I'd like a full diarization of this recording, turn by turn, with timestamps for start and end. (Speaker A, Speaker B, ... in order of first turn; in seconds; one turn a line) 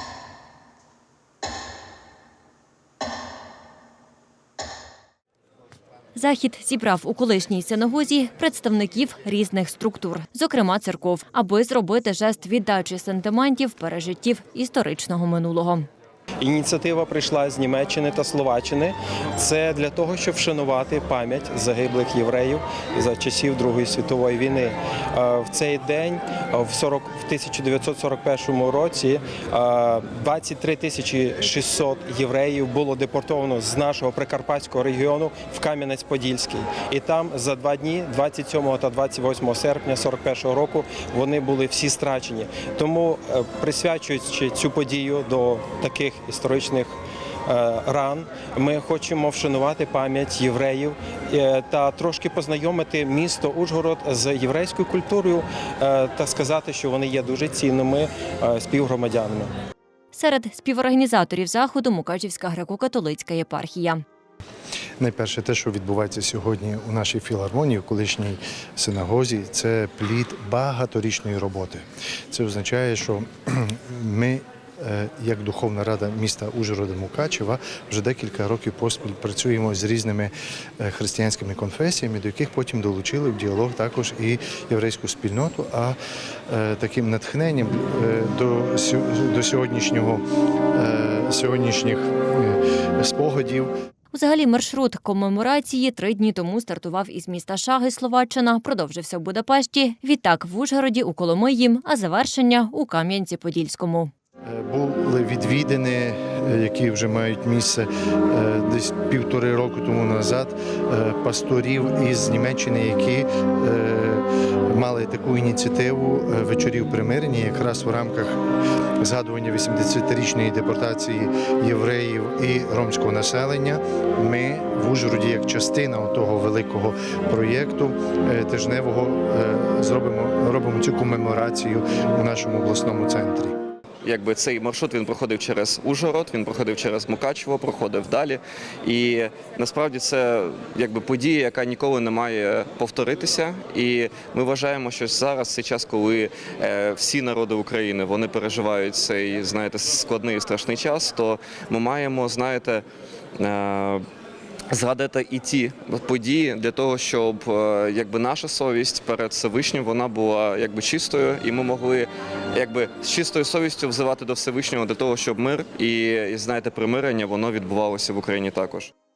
Speaker A: 6.2-15.9
Speaker B: 16.4-46.9
Speaker B: 47.5-59.5
Speaker A: 60.1-64.0
Speaker C: 65.0-86.0
Speaker C: 86.5-93.7
Speaker A: 94.1-104.1
Speaker C: 104.5-118.4
Speaker C: 119.0-133.5
Speaker D: 134.0-152.8
Speaker D: 153.4-154.0
Speaker D: 154.7-168.9